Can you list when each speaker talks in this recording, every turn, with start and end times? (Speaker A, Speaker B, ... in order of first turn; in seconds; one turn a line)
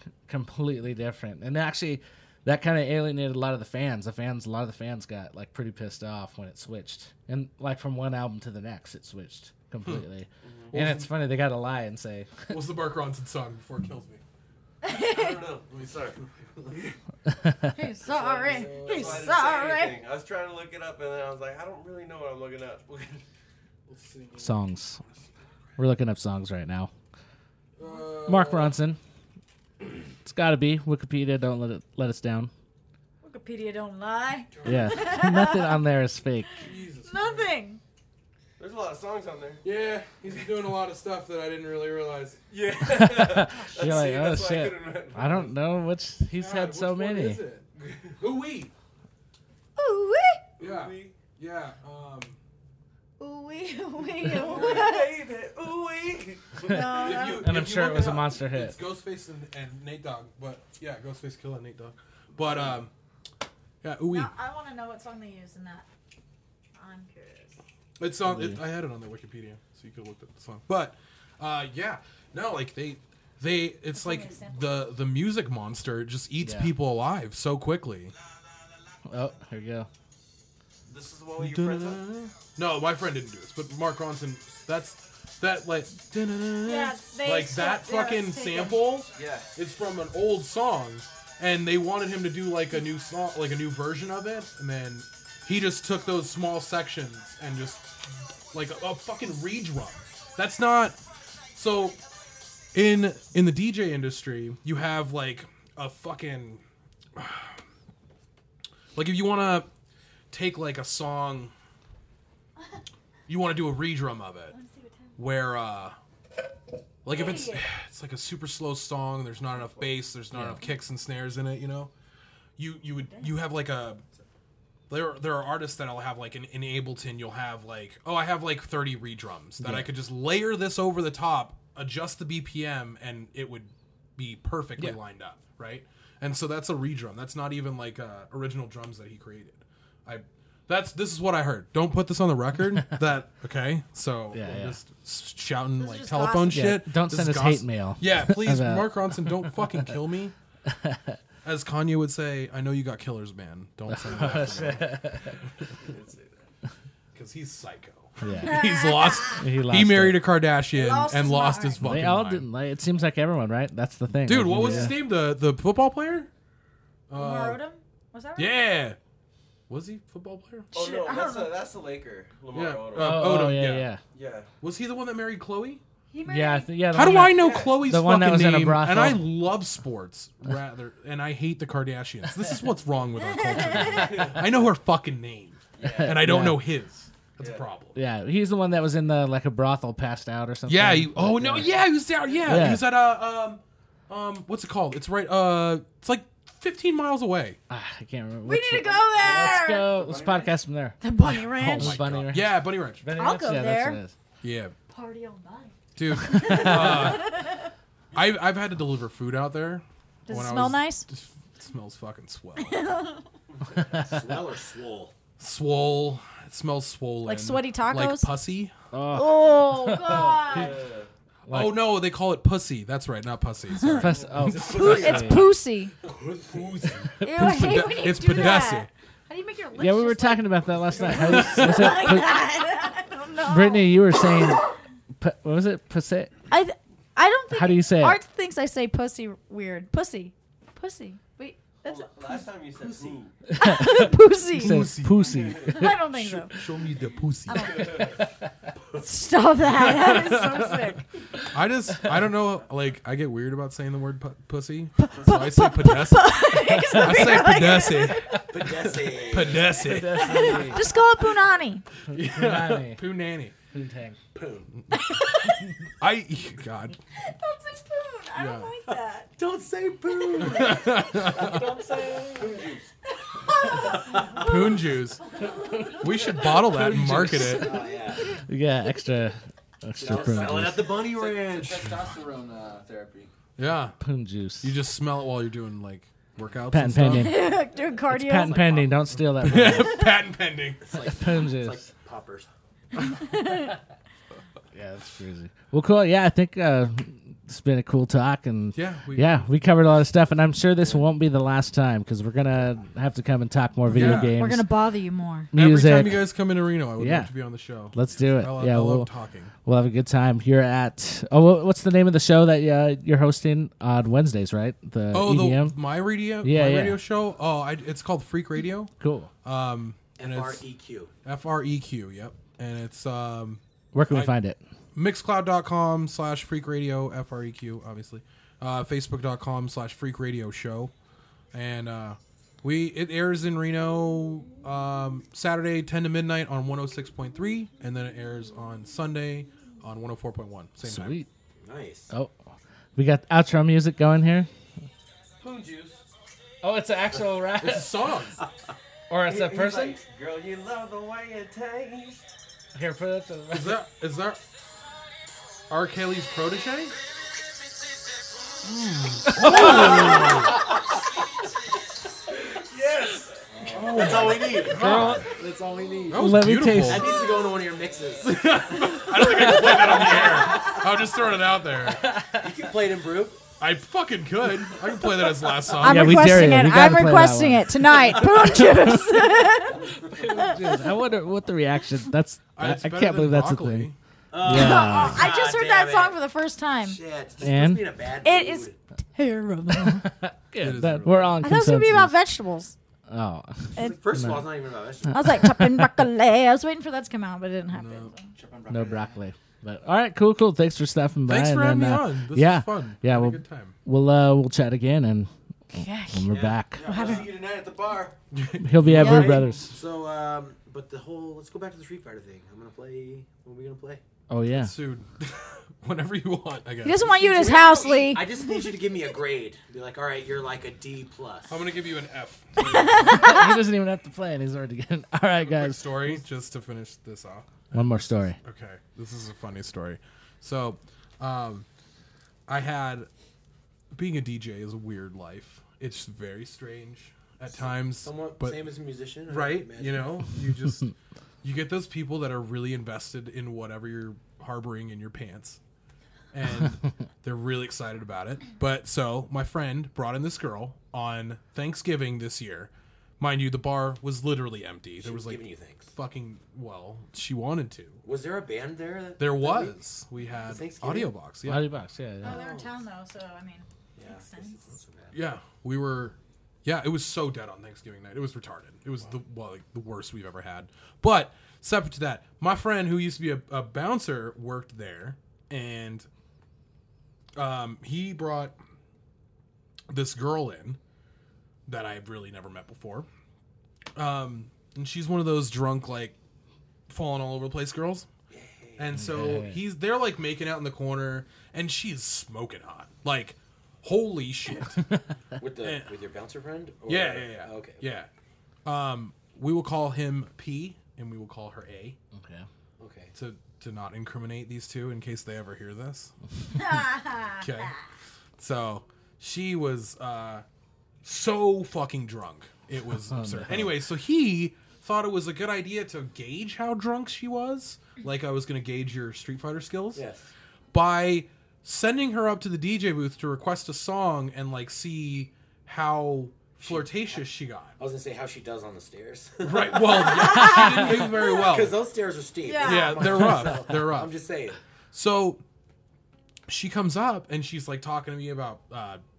Speaker A: 0.3-12.5
Speaker B: 10.4-10.7
Speaker C: 10.7-11.1
Speaker C: 12.5-14.2
Speaker D: 14.8-15.5
Speaker B: 14.8-16.9
Speaker A: 17.3-17.7
Speaker D: 17.7-20.0
Speaker C: 18.0-19.3
Speaker B: 18.4-23.2
Speaker C: 23.9-25.2
Speaker A: 24.4-25.0
Speaker A: 25.8-26.9
Speaker C: 27.8-28.7
Speaker A: 28.2-29.0
Speaker A: 30.2-32.5
Speaker D: 33.2-35.8
Speaker C: 34.6-35.2
Speaker A: 34.6-36.6
Speaker C: 36.6-37.5
Speaker D: 37.0-37.8
Speaker B: 38.6-39.6
Speaker C: 39.6-42.4
Speaker B: 42.5-45.5
Speaker A: 42.8-47.4
Speaker D: 43.5-44.0
Speaker C: 46.3-47.6
Speaker B: 47.8-48.1
Speaker C: 48.2-48.7
Speaker D: 49.8-50.5
Speaker B: 50.6-51.1
Speaker C: 50.6-52.4
Speaker D: 53.2-55.1
Speaker B: 54.1-57.3
Speaker D: 56.6-57.6
Speaker A: 56.7-58.8
Speaker C: 56.9-62.9
Speaker B: 62.4-62.8
Speaker C: 63.8-64.3
Speaker D: 64.0-65.9
Speaker D: 66.7-67.6
Speaker C: 68.0-78.1
Speaker A: 68.2-68.6
Speaker D: 73.9-74.7
Speaker A: 76.4-76.7
Speaker A: 79.1-79.9
Speaker B: 80.9-82.0
Speaker C: 81.4-101.0
Speaker D: 86.6-88.9
Speaker B: 89.1-89.5
Speaker C: 101.5-102.0
Speaker C: 102.7-106.6
Speaker C: 107.2-107.6
Speaker C: 108.9-109.7
Speaker C: 110.3-111.5
Speaker C: 113.3-114.5
Speaker D: 114.5-115.1
Speaker C: 115.2-116.0
Speaker C: 117.0-121.9
Speaker D: 117.1-117.6
Speaker A: 120.3-120.7
Speaker C: 122.6-124.0
Speaker D: 123.1-123.3
Speaker C: 124.9-150.3
Speaker A: 129.6-129.9
Speaker A: 144.3-144.8
Speaker D: 145.8-146.7
Speaker A: 146.5-149.9
Speaker A: 150.7-151.2
Speaker C: 151.4-155.1
Speaker A: 153.9-155.3
Speaker B: 155.8-156.5
Speaker C: 157.1-162.4
Speaker A: 158.2-158.6
Speaker D: 158.4-159.5
Speaker A: 159.3-160.2
Speaker D: 160.7-161.8
Speaker A: 161.8-165.0
Speaker C: 164.2-166.3
Speaker C: 167.1-167.6
Speaker D: 167.1-168.6
Speaker C: 168.4-169.0
Speaker C: 169.7-170.7
Speaker D: 170.7-171.5
Speaker B: 170.7-173.4
Speaker C: 172.5-173.9
Speaker A: 172.9-174.0
Speaker B: 174.1-174.5
Speaker C: 174.6-175.8
Speaker D: 176.1-176.9
Speaker A: 176.2-179.3
Speaker C: 176.9-188.0
Speaker B: 177.3-177.8
Speaker D: 183.2-184.3
Speaker B: 183.9-184.6
Speaker B: 185.8-186.2
Speaker A: 185.8-186.6
Speaker B: 187.4-187.7
Speaker A: 187.9-191.8
Speaker C: 190.7-197.6
Speaker A: 192.4-192.9
Speaker A: 197.7-204.1
Speaker D: 198.4-199.9
Speaker E: 199.1-200.6
Speaker D: 201.0-202.2
Speaker C: 201.6-203.1
Speaker D: 203.1-204.0
Speaker C: 204.4-204.7
Speaker D: 204.9-207.7
Speaker C: 205.9-207.4
Speaker A: 206.2-206.9
Speaker C: 208.1-213.0
Speaker D: 210.3-211.1
Speaker D: 212.6-213.2
Speaker F: 213.9-215.1
Speaker C: 215.4-218.7
Speaker D: 217.2-218.3
Speaker A: 218.9-220.7
Speaker D: 219.1-220.8
Speaker B: 220.3-221.1
Speaker A: 221.5-221.9
Speaker C: 221.5-225.0
Speaker A: 223.9-225.5
Speaker B: 224.2-225.2
Speaker D: 224.7-225.9
Speaker B: 226.0-227.0
Speaker C: 226.8-228.9
Speaker D: 227.2-234.5
Speaker A: 227.3-227.9
Speaker A: 229.7-232.4
Speaker C: 231.1-232.1
Speaker A: 233.4-236.3
Speaker D: 236.5-242.4
Speaker A: 237.5-238.2
Speaker B: 241.8-243.3
Speaker A: 243.5-246.1
Speaker D: 243.6-244.9
Speaker C: 244.5-248.1
Speaker D: 245.6-246.6
Speaker D: 247.5-248.2
Speaker B: 247.8-248.0
Speaker D: 248.9-251.0
Speaker C: 249.6-260.7
Speaker D: 255.0-258.4
Speaker A: 256.7-257.4
Speaker F: 258.5-259.9
Speaker A: 259.7-260.9
Speaker D: 260.1-261.8
Speaker C: 262.1-263.5
Speaker A: 262.1-263.0
Speaker A: 263.7-264.2
Speaker F: 264.3-264.7
Speaker D: 264.9-265.7
Speaker C: 266.0-267.0
Speaker D: 267.1-269.3
Speaker C: 268.3-268.8
Speaker F: 269.4-272.7
Speaker C: 270.3-271.7
Speaker A: 271.4-272.2
Speaker E: 272.0-272.8
Speaker D: 273.2-276.6
Speaker F: 273.7-274.5
Speaker C: 274.4-275.2
Speaker A: 275.7-276.0
Speaker C: 275.9-277.8
Speaker A: 276.6-277.7
Speaker F: 277.3-278.3
Speaker D: 277.7-278.4
Speaker A: 278.5-281.0
Speaker F: 280.0-281.8
Speaker E: 280.1-283.3
Speaker C: 281.6-282.0
Speaker C: 283.6-284.0
Speaker A: 284.0-284.8
Speaker C: 284.6-287.4
Speaker A: 286.7-287.5
Speaker D: 287.1-288.8
Speaker F: 287.8-289.0
Speaker A: 288.1-290.1
Speaker C: 289.3-290.9
Speaker F: 290.8-292.5
Speaker A: 290.9-291.9
Speaker D: 293.1-293.7
Speaker A: 294.7-304.6
Speaker C: 298.7-299.5
Speaker C: 303.9-304.4
Speaker D: 303.9-305.5
Speaker A: 305.5-306.3
Speaker C: 305.5-309.5
Speaker A: 307.0-307.3
Speaker A: 307.9-309.1
Speaker A: 309.6-315.8
Speaker C: 315.1-318.9
Speaker A: 316.4-317.0
Speaker A: 319.0-319.3
Speaker C: 319.4-320.6
Speaker F: 320.2-321.1
Speaker C: 321.2-324.3
Speaker A: 323.9-324.6
Speaker C: 324.9-330.9
Speaker C: 331.5-341.2
Speaker A: 340.8-341.3
Speaker F: 341.6-342.1
Speaker A: 342.9-344.5
Speaker B: 345.4-346.0
Speaker A: 346.6-348.0
Speaker C: 347.6-348.4
Speaker A: 349.1-350.0
Speaker B: 349.2-352.3
Speaker A: 352.7-353.8
Speaker C: 353.5-354.4
Speaker C: 355.7-356.9
Speaker C: 358.6-360.7
Speaker A: 359.3-360.2
Speaker F: 359.4-360.7
Speaker B: 362.6-364.0
Speaker E: 363.6-364.7
Speaker F: 363.6-370.8
Speaker C: 363.7-365.3
Speaker A: 364.6-365.3
Speaker B: 365.8-366.1
Speaker C: 366.1-367.2
Speaker A: 366.1-367.2
Speaker C: 368.2-372.1
Speaker A: 371.8-372.6
Speaker F: 372.3-373.4
Speaker C: 373.6-376.5
Speaker D: 375.7-380.6
Speaker A: 375.8-379.3
Speaker A: 380.0-383.9
Speaker C: 382.5-383.9
Speaker F: 384.3-386.2
Speaker A: 384.4-385.3
Speaker D: 384.4-387.0
Speaker F: 386.8-388.8
Speaker A: 387.4-387.9
Speaker D: 388.2-390.1
Speaker A: 389.8-392.1
Speaker C: 390.6-391.4
Speaker D: 391.4-392.7
Speaker A: 393.1-394.5
Speaker F: 393.8-395.5
Speaker A: 395.1-396.0
Speaker D: 395.1-398.3
Speaker C: 397.7-398.1
Speaker E: 398.4-399.2
Speaker B: 398.4-398.9
Speaker A: 398.7-405.3
Speaker C: 401.3-403.8
Speaker D: 405.7-406.3
Speaker A: 406.1-406.8
Speaker F: 406.3-407.2
Speaker B: 406.8-408.1
Speaker D: 406.9-407.3
Speaker E: 407.0-407.2
Speaker C: 408.3-409.5
Speaker A: 408.6-409.7
Speaker D: 409.0-409.4
Speaker F: 409.0-414.0
Speaker A: 414.3-414.7
Speaker C: 414.5-417.8
Speaker D: 416.8-418.7
Speaker F: 417.2-421.6
Speaker C: 421.5-423.4
Speaker D: 422.7-423.6
Speaker A: 422.9-426.2
Speaker C: 425.4-431.7
Speaker A: 427.7-428.4
Speaker C: 432.5-433.1
Speaker C: 433.9-438.7
Speaker F: 437.6-440.1
Speaker C: 439.3-440.9
Speaker C: 441.4-445.6
Speaker C: 446.3-458.0
Speaker F: 455.0-455.9
Speaker F: 458.0-459.8
Speaker C: 459.2-461.7
Speaker F: 460.3-461.1
Speaker A: 461.4-462.4
Speaker F: 462.2-462.8
Speaker D: 462.2-464.6
Speaker F: 463.9-465.1
Speaker C: 465.1-476.1
Speaker C: 477.4-478.6
Speaker C: 479.9-480.8
Speaker C: 481.7-483.1
Speaker C: 483.9-486.1
Speaker C: 486.9-488.1
Speaker F: 488.3-489.0
Speaker C: 488.8-494.9
Speaker A: 488.9-489.6
Speaker F: 495.4-497.8
Speaker C: 495.6-495.9
Speaker C: 496.9-498.1
Speaker C: 498.6-502.0
Speaker A: 502.1-502.5
Speaker F: 502.8-503.1
Speaker C: 503.1-506.1
Speaker D: 506.5-507.7
Speaker C: 507.4-507.8
Speaker C: 508.4-510.4
Speaker C: 511.0-520.0
Speaker A: 513.1-513.8
Speaker F: 519.9-520.3
Speaker C: 520.7-527.7
Speaker F: 526.6-527.2
Speaker F: 527.8-534.6
Speaker C: 529.4-531.8
Speaker D: 532.4-533.4
Speaker C: 532.6-534.1
Speaker C: 534.9-535.4
Speaker C: 536.5-539.0